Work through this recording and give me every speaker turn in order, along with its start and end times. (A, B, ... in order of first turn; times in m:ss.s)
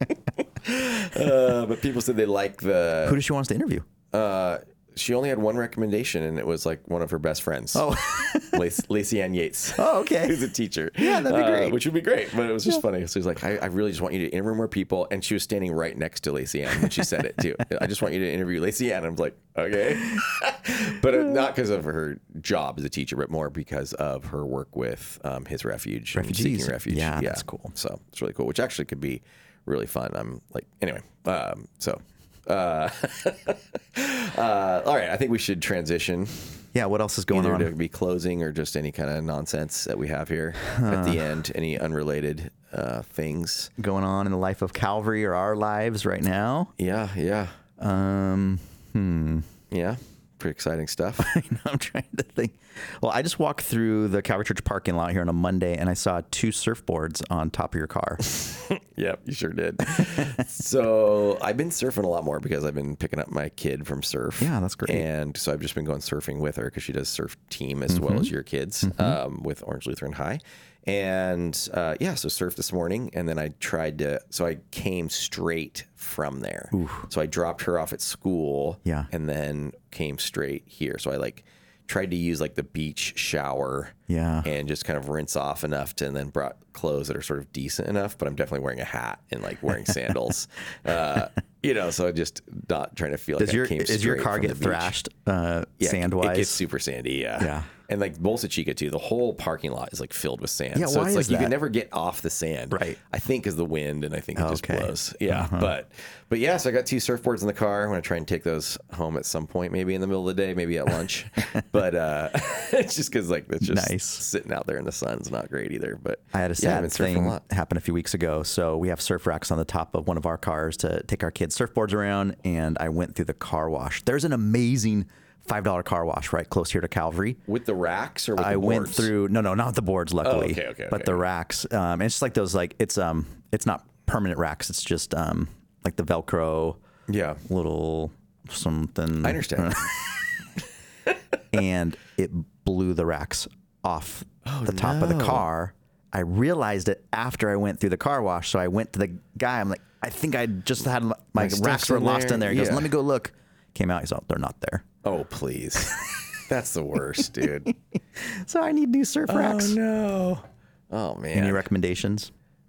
0:00.6-0:03.2 A
0:03.0-0:03.8 B
0:04.1-0:36.7 A
0:07.7-0:08.6 B
0:09.8-0:10.5 B
0:11.0-0:11.8 B
0:26.1-0:27.7 B
0:36.7-0:37.7 B
0:37.3-0:43.7 A
0:40.6-0:41.2 B
0:43.8-0:46.7 B
0:46.8-0:47.6 A
0:47.8-0:49.5 B
0:49.7-0:51.3 A
0:51.2-0:58.2 B
0:58.3-1:34.9 A
1:00.0-1:00.3 B
1:04.4-1:05.0 B
1:07.9-1:08.3 B
1:08.8-1:09.2 B
1:16.7-1:17.1 B
1:18.8-1:19.1 B
1:24.1-1:24.5 B
1:33.4-1:36.6 B
1:35.8-1:57.4 A
1:37.4-1:37.7 B
1:40.7-1:41.6 B
1:42.7-1:43.0 B
1:44.4-1:45.7 B
1:53.6-1:54.2 B
1:56.3-2:07.4 B
2:07.5-2:09.1 A
2:08.4-2:16.8 B
2:10.2-2:11.2 A
2:17.1-2:17.4 A
2:17.4-2:20.0 B
2:19.2-2:20.3 A
2:21.5-2:34.8 B
2:24.4-2:25.4 A
2:31.4-2:32.9 A
2:35.0-2:37.7 A
2:35.8-2:36.3 B
2:38.1-2:39.8 B
2:39.3-2:41.7 A
2:41.3-2:42.3 B